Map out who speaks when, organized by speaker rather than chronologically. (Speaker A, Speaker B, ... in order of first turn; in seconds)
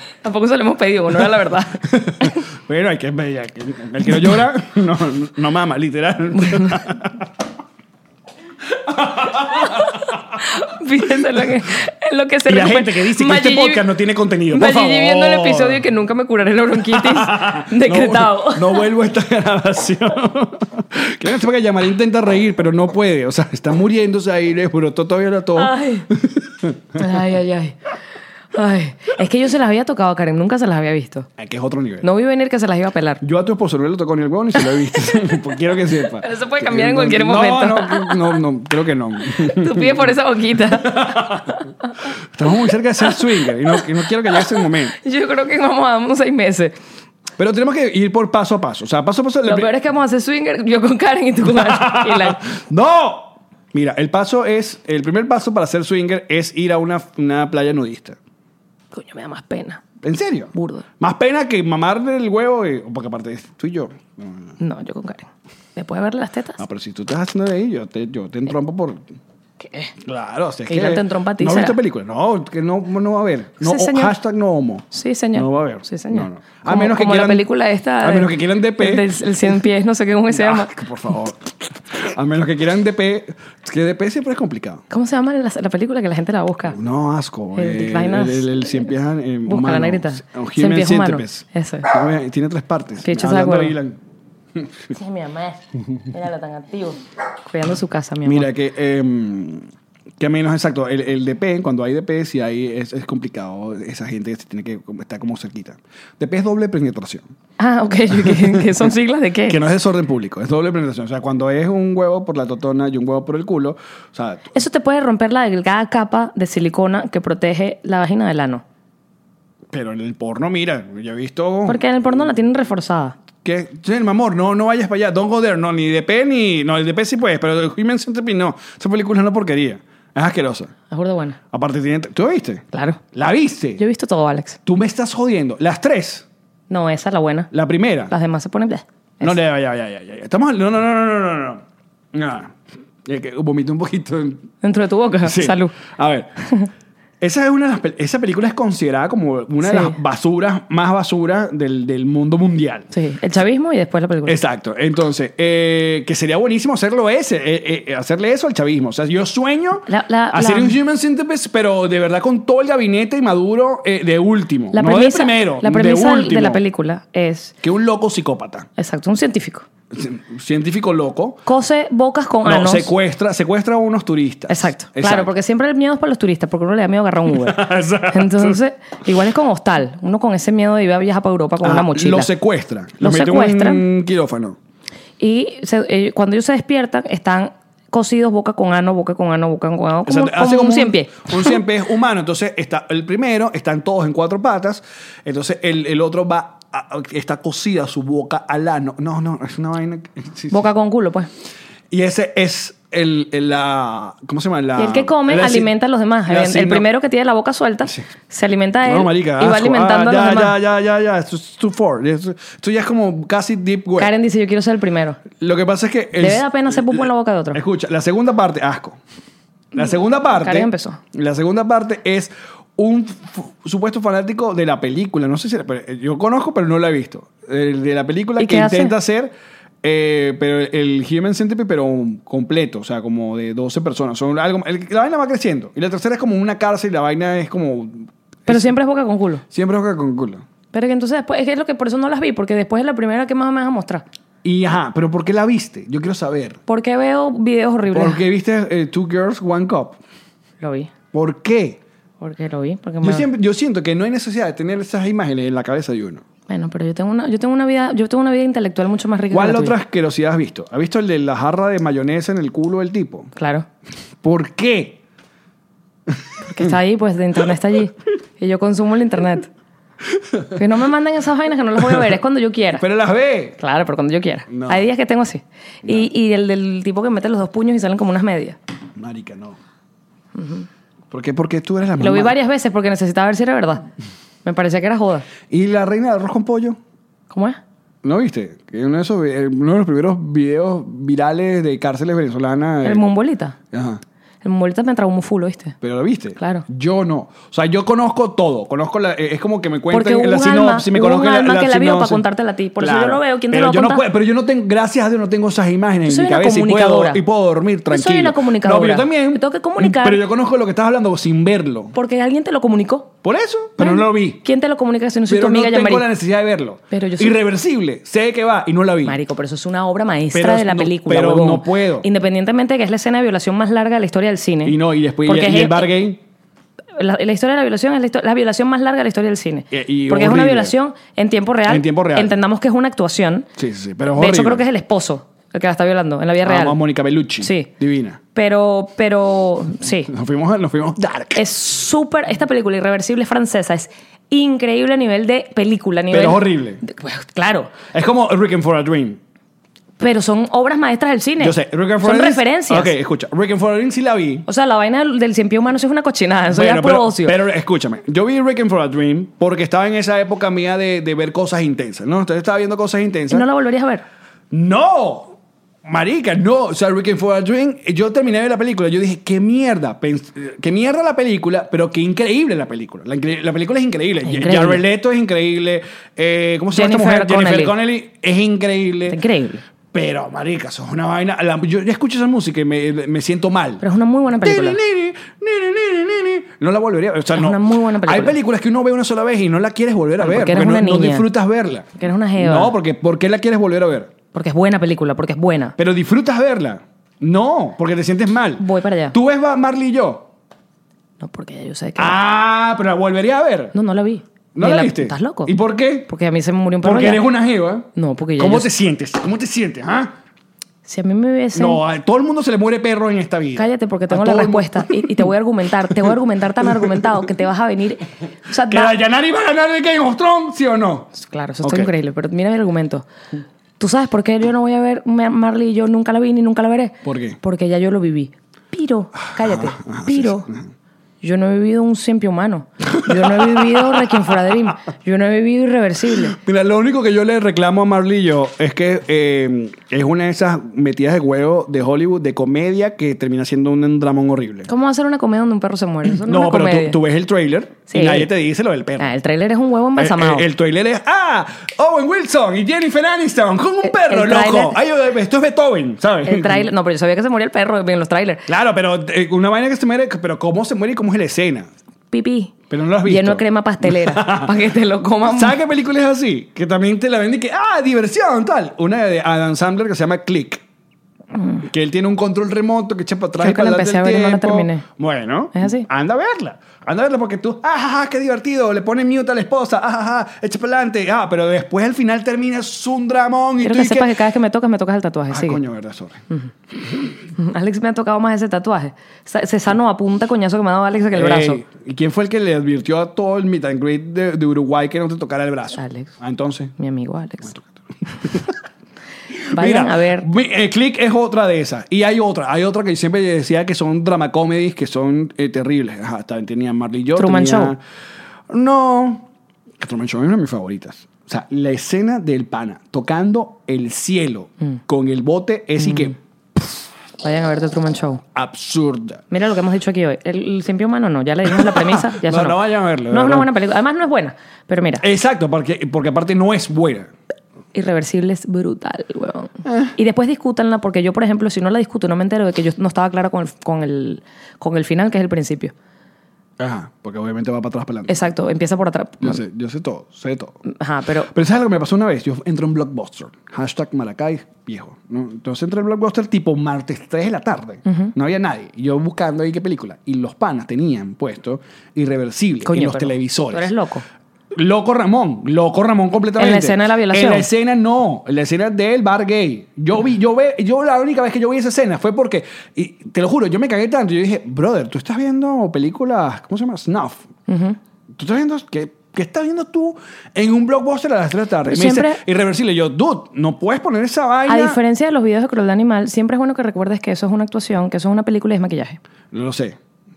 Speaker A: 0.2-2.4, 6.4-6.8, 9.5-13.8, 14.5-18.9, 25.6-26.1, 26.9-27.8, 28.5-31.3, 32.0-33.2, 34.6-35.4, 36.1-38.3, 39.3-41.6, 43.1-46.7, 49.4-52.4, 58.9-59.8, 60.5-60.8, 64.6-66.6, 69.6-69.9, 70.7-71.8, 73.6-74.1, 74.9-80.7, 84.9-86.8, 87.5-88.8, 89.5-91.9, 93.0-93.8, 94.9-98.5, 107.6-109.6, 114.5-118.6, 121.7-123.2, 130.9-131.4, 132.7-133.0, 133.8-134.6, 136.7-137.5, 138.1-139.3, 144.6-145.8, 149.6-150.0, 152.9-154.4, 159.9-160.8, 164.7-167.5, 168.8-169.7, 171.4-172.9, 174.5-182.3, 183.0-183.8, 185.2-191.6, 200.5-201.3, 204.8-210.6, 214.0-215.2, 216.2-217.6, 220.4-221.0, 228.4-228.9, 238.5-239.4, 240.7-244.0, 246.7-248.2, 250.6-250.9, 252.2-253.3, 256.5-259.8, 263.4-263.6, 266.4-269.5, 270.5-272.8, 273.6-278.6, 280.3-280.7, 282.0-283.8, 284.4-285.3, 287.3-287.6, 292.8-293.6, 294.4-295.7, 296.4-296.6, 299.9-304.1, 306.1-307.2, 307.9-310.2, 311.9-313.1, 313.8-316.1, 316.9-317.3, 319.0-325.9, 326.9-333.5, 334.2-336.8, 337.4-337.7, 338.3-340.1, 341.3-347.7, 350.0-352.9, 354.5-357.3, 363.3-364.0, 374.2-374.8, 376.7-377.7, 379.1-379.6, 383.8-384.8, 387.3-388.4, 390.2-391.3, 392.0-392.7, 394.3-395.7, 398.6-399.1, 401.2-402.2, 403.7-405.6, 406.1-407.3, 407.9-408.7, 410.8-411.8, 413.6-418.9, 421.1-423.1, 423.8-430.5, 431.2-436.4, 444.7-447.0, 447.9-448.3, 449.0-450.4, 453.8-454.8, 456.2-458.4, 462.1-465.6, 471.3-471.6, 473.4-474.8, 475.5-475.9, 483.6-485.6, 487.3-491.6, 495.7-496.1, 496.8-497.5, 499.5-500.3, 507.1-507.7, 515.8-516.1, 517.2-518.2, 519.3-525.0, 527.7-535.7, 538.1-539.4, 540.6-541.3, 547.9-548.1, 552.6-554.0, 556.4-557.5, 567.5-567.8, 571.6-572.2, 574.5-579.0
Speaker B: 1.8-7.3, 8.7-10.2, 11.2-11.4, 12.5-15.8, 16.9-27.0, 31.4-32.1, 33.2-40.1, 40.7-41.6, 42.3-44.9, 47.4-49.7, 51.4-58.2, 60.0-64.5, 66.6-69.2, 70.0-77.5, 78.0-79.1, 80.3-84.8, 86.7-94.0, 94.5-94.9, 98.2-107.3, 108.1-108.8, 109.5-114.5, 119.7-122.0, 123.4-130.7, 131.5-133.8, 134.7-136.2, 137.5-138.1, 139.2-144.5, 145.2-146.3, 147.2-152.9, 154.2-166.6, 167.6-168.7, 169.9-171.4, 172.4-175.3, 177.3-178.6, 181.6-184.6, 190.1-200.7, 201.9-205.7, 206.2-206.9, 208.8-214.1, 215.3-219.0, 219.7-238.7, 239.5-240.4, 244.4-246.6, 247.9-250.0, 251.1-251.8, 253.0-256.2, 259.3-263.3, 264.2-265.0, 270.2-270.6, 272.8-273.6, 274.5-274.9, 278.9-279.6, 281.1-282.4, 285.5-286.8, 288.0-293.1, 293.7-294.0, 295.8-302.2, 302.8-311.9, 313.2-314.4, 315.3-319.2, 320.3-322.1, 324.6-326.2, 329.7-330.7, 331.6-332.4, 333.6-334.6, 336.4-338.2, 340.1-341.4, 346.1-346.8, 347.9-349.2, 351.4-354.4, 356.5-363.5, 364.5-379.2, 379.9-383.8, 384.4-394.1, 395.8-400.3, 402.0-403.7, 404.5-406.1, 406.8-410.1, 411.5-415.3, 415.9-417.3, 418.5-421.9, 427.0-427.4, 429.2-430.7, 432.9-434.2, 436.2-444.7, 446.1-449.1, 449.9-456.7, 458.5-461.7, 462.7-464.6, 465.2-470.6, 471.6-484.1, 485.3-486.2, 491.1-496.7, 497.4-498.5, 499.4-507.8, 508.5-516.7, 518.3-519.2, 521.5-523.5, 525.0-527.1, 529.6-529.9, 536.6-538.3, 539.2-540.6, 541.2-553.7, 554.5-567.2, 568.1-574.8, 579.3-579.8